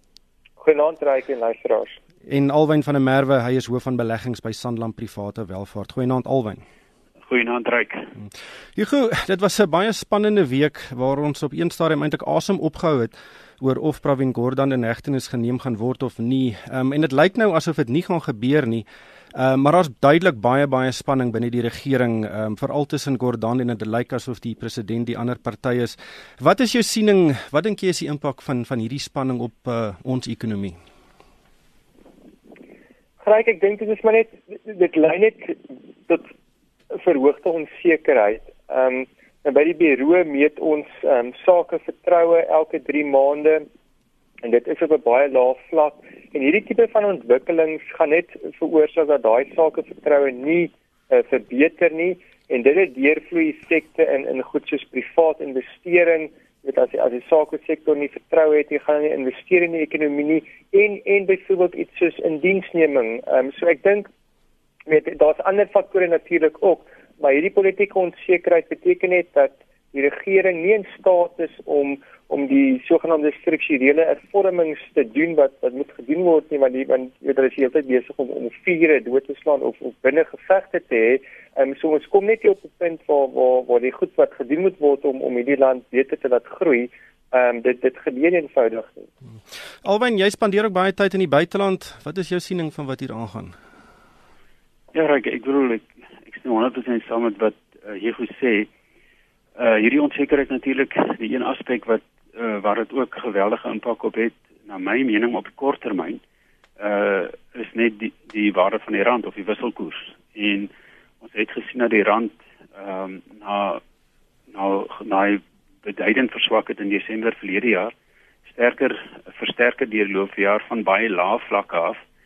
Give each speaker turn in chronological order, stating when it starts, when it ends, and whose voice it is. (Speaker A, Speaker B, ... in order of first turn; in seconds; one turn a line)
Speaker A: 0.6-2.0
Speaker B: 2.3-6.6
Speaker C: 7.3-8.1
Speaker B: 8.8-30.8
Speaker A: 33.2-36.3
Speaker A: 36.9-43.6
Speaker A: 44.4-64.1
Speaker A: 64.9-89.1
Speaker B: 89.8-93.5
Speaker C: 94.9-98.7
Speaker C: 99.6-106.2
Speaker C: 106.8-110.7
Speaker C: 111.2-113.8
Speaker C: 114.5-117.9
Speaker C: 118.5-122.0